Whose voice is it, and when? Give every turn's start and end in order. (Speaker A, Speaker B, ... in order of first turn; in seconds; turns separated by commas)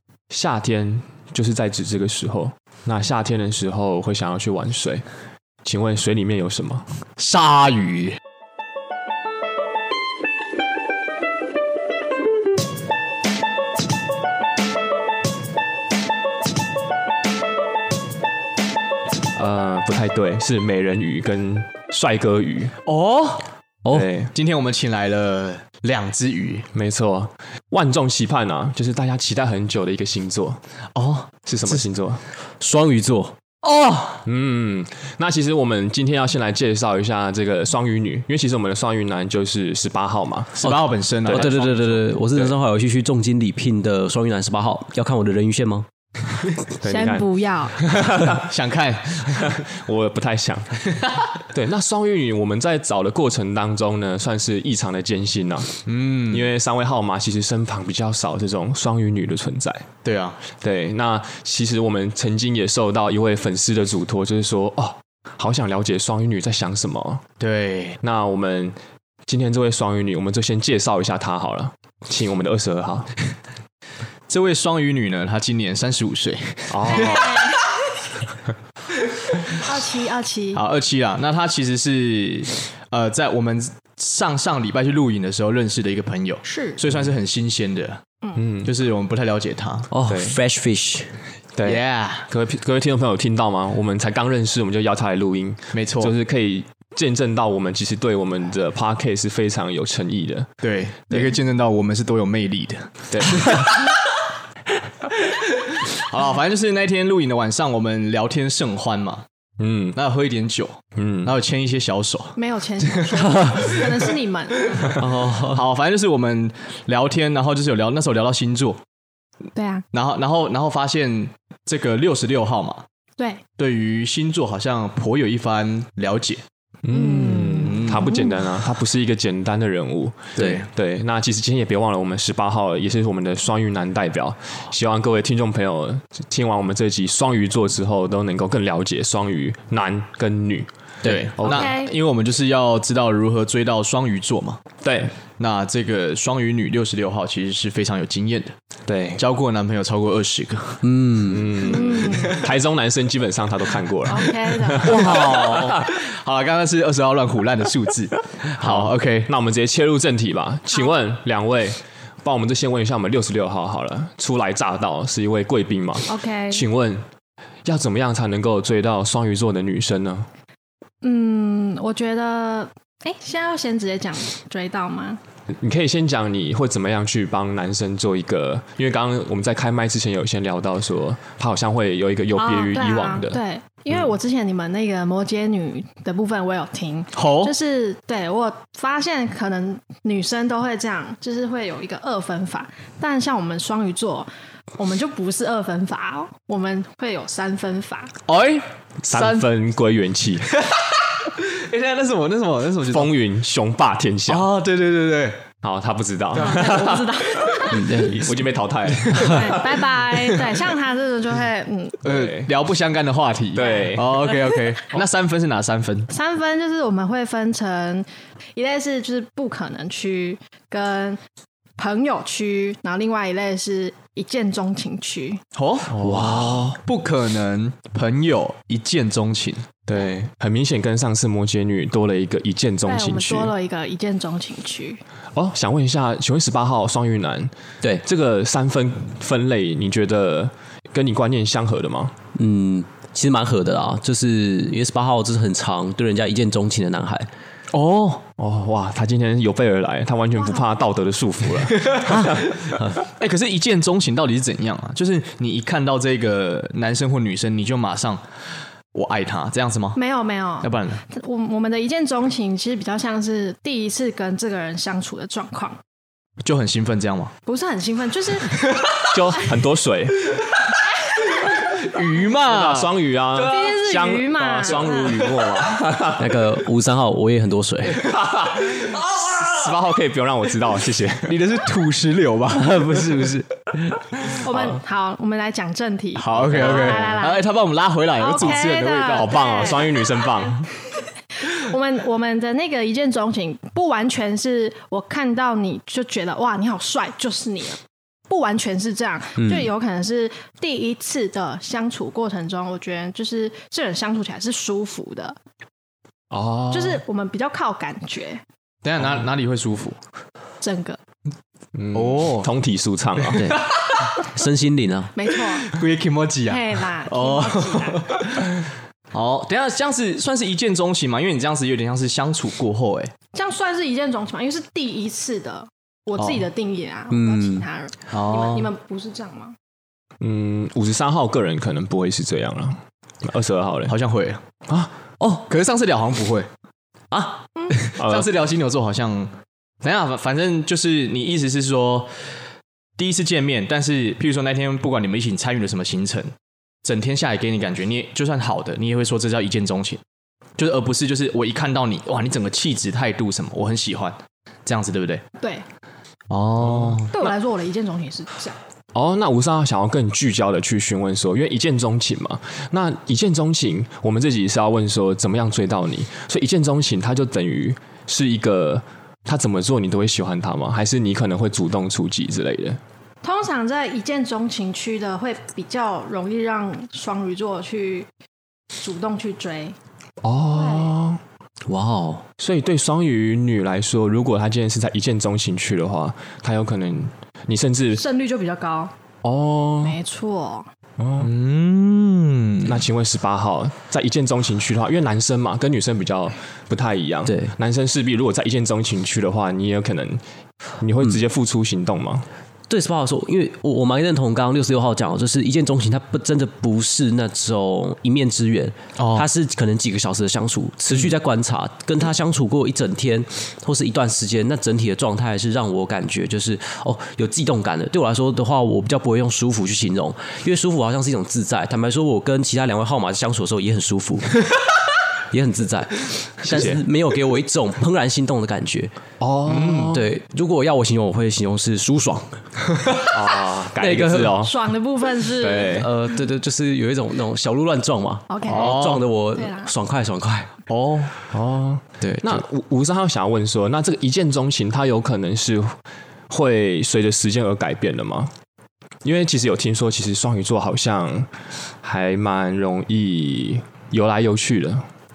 Speaker A: 0.3-5.0, Speaker A: 5.6-6.8, Speaker B: 7.2-8.2, Speaker A: 19.3-22.7, Speaker B: 22.8-23.4, Speaker A: 23.9-24.3, Speaker B: 24.3-26.7, Speaker A: 26.7-30.6, Speaker B: 30.9-31.8, Speaker A: 31.4-32.2, Speaker C: 32.6-33.9, Speaker A: 34.2-40.5, Speaker B: 40.5-42.0, Speaker C: 41.3-45.9, Speaker A: 46.8-48.5, Speaker D: 46.9-47.8, Speaker B: 48.3-49.6, Speaker A: 49.3-50.8, Speaker A: 51.4-55.8, Speaker B: 55.8-56.5, Speaker A: 56.3-59.9, Speaker B: 60.0-60.4, Speaker A: 60.5-67.2, Speaker B: 67.4-68.0, Speaker A: 68.0-68.8, Speaker A: 69.3-73.1, Speaker B: 74.3-77.3, Speaker A: 76.7-77.5, Speaker D: 76.9-77.6, Speaker D: 79.5-80.6, Speaker B: 80.5-88.0, Speaker D: 86.5-86.8, Speaker A: 88.3-88.7, Speaker B: 88.6-89.9, Speaker C: 89.9-91.2, Speaker A: 90.1-90.4, Speaker A: 91.5-100.5, Speaker B: 91.6-92.3, Speaker B: 95.7-96.1, Speaker B: 100.6-103.8, Speaker A: 103.1-103.6, Speaker B: 105.2-109.2, Speaker A: 109.6-110.0, Speaker B: 109.9-114.1, Speaker A: 111.0-111.3, Speaker D: 112.3-115.0, Speaker C: 115.0-115.6, Speaker B: 115.4-118.8, Speaker D: 119.5-119.8, Speaker B: 119.9-122.8, Speaker D: 123.2-123.4, Speaker B: 123.6-126.4, Speaker A: 126.8-140.7, Speaker D: 126.9-128.4, Speaker B: 127.6-128.2, Speaker B: 130.3-130.7, Speaker C: 130.4-130.6, Speaker B: 141.0-144.6, Speaker A: 141.3-141.7, Speaker D: 141.4-141.9, Speaker A: 144.8-145.1, Speaker B: 145.4-148.5, Speaker A: 148.9-149.2, Speaker B: 149.2-150.8, Speaker C: 150.8-151.7, Speaker A: 151.2-155.8, Speaker D: 151.6-152.4, Speaker D: 154.0-154.9, Speaker C: 154.8-155.7, Speaker B: 154.8-159.3, Speaker A: 158.5-167.1, Speaker D: 166.1-166.7, Speaker A: 167.6-170.3, Speaker D: 171.0-175.2, Speaker A: 175.5-183.4, Speaker D: 182.3-198.1, Speaker B: 187.1-187.5, Speaker B: 198.2-199.4, Speaker A: 199.0-200.6, Speaker B: 200.6-203.1, Speaker A: 202.9-204.5, Speaker B: 204.3-205.4, Speaker A: 205.6-210.0, Speaker D: 206.4-207.8, Speaker B: 206.4-206.7, Speaker C: 207.7-208.3, Speaker B: 208.9-209.6, Speaker D: 209.2-212.0, Speaker B: 210.2-210.6, Speaker B: 212.0-216.1, Speaker A: 212.0-212.5, Speaker A: 213.6-214.1, Speaker D: 213.6-214.7, Speaker D: 216.1-221.2, Speaker D: 221.8-225.4, Speaker B: 225.5-229.7, Speaker A: 226.0-226.8, Speaker C: 226.0-226.6, Speaker A: 229.9-233.5, Speaker D: 232.8-235.0, Speaker A: 235.3-237.5, Speaker A: 238.0-242.1, Speaker C: 242.3-247.3, Speaker B: 247.7-248.2, Speaker A: 248.4-252.4, Speaker D: 250.3-250.7, Speaker B: 251.7-258.2, Speaker C: 252.1-253.0, Speaker B: 258.9-260.0, Speaker D: 259.9-265.8, Speaker B: 260.6-261.0, Speaker B: 266.4-267.3, Speaker D: 267.4-268.6, Speaker A: 269.1-270.4, Speaker B: 271.4-273.8, Speaker A: 272.4-276.3, Speaker D: 273.4-275.2, Speaker B: 274.8-275.2, Speaker C: 276.1-278.1, Speaker A: 278.1-281.4, Speaker B: 278.6-279.4, Speaker B: 281.2-283.0, Speaker C: 282.5-284.1, Speaker D: 284.4-287.5, Speaker B: 286.1-289.8, Speaker A: 286.5-286.8, Speaker D: 288.2-290.5, Speaker A: 289.1-290.7, Speaker D: 291.4-305.4, Speaker C: 299.4-299.7, Speaker A: 306.3-307.0, Speaker D: 306.7-308.4, Speaker B: 308.8-310.0, Speaker D: 310.6-311.0, Speaker A: 311.7-313.5, Speaker B: 311.9-312.5, Speaker C: 313.3-315.1, Speaker B: 313.5-314.1, Speaker D: 315.1-315.8, Speaker B: 315.6-323.1, Speaker D: 316.5-318.2, Speaker D: 323.3-329.6, Speaker B: 326.2-326.4, Speaker C: 327.1-327.6, Speaker B: 328.1-328.7, Speaker A: 330.2-333.9, Speaker B: 333.9-334.4, Speaker C: 335.2-335.4, Speaker B: 335.5-336.5, Speaker C: 337.1-337.9, Speaker B: 337.9-342.2, Speaker A: 338.0-338.3, Speaker B: 343.0-346.3, Speaker B: 346.8-350.0, Speaker B: 350.6-355.2, Speaker D: 355.4-355.6, Speaker B: 356.3-357.1, Speaker A: 356.6-357.3, Speaker D: 357.1-358.6, Speaker A: 358.9-372.8, Speaker D: 373.2-378.1, Speaker D: 378.8-379.8, Speaker A: 380.2-381.2, Speaker D: 380.5-380.9, Speaker C: 381.7-382.2, Speaker A: 382.4-388.0, Speaker D: 387.9-388.9, Speaker A: 389.2-389.9, Speaker D: 389.8-390.7, Speaker A: 391.0-391.3, Speaker B: 391.2-392.8, Speaker A: 392.6-400.2, Speaker C: 397.2-397.5, Speaker A: 400.8-402.3, Speaker C: 402.7-424.4, Speaker B: 409.0-409.3, Speaker C: 425.3-428.9, Speaker A: 426.5-426.8, Speaker A: 429.2-430.0, Speaker B: 429.5-429.9, Speaker C: 429.6-433.0, Speaker A: 433.1-434.5, Speaker C: 433.8-434.4, Speaker D: 434.4-435.8, Speaker A: 435.4-435.9, Speaker C: 435.5-440.5, Speaker D: 438.3-439.7, Speaker B: 438.4-439.1, Speaker B: 440.7-441.1, Speaker A: 441.3-445.8, Speaker C: 442.0-442.4, Speaker A: 446.3-448.3, Speaker A: 449.0-451.3, Speaker A: 451.8-454.8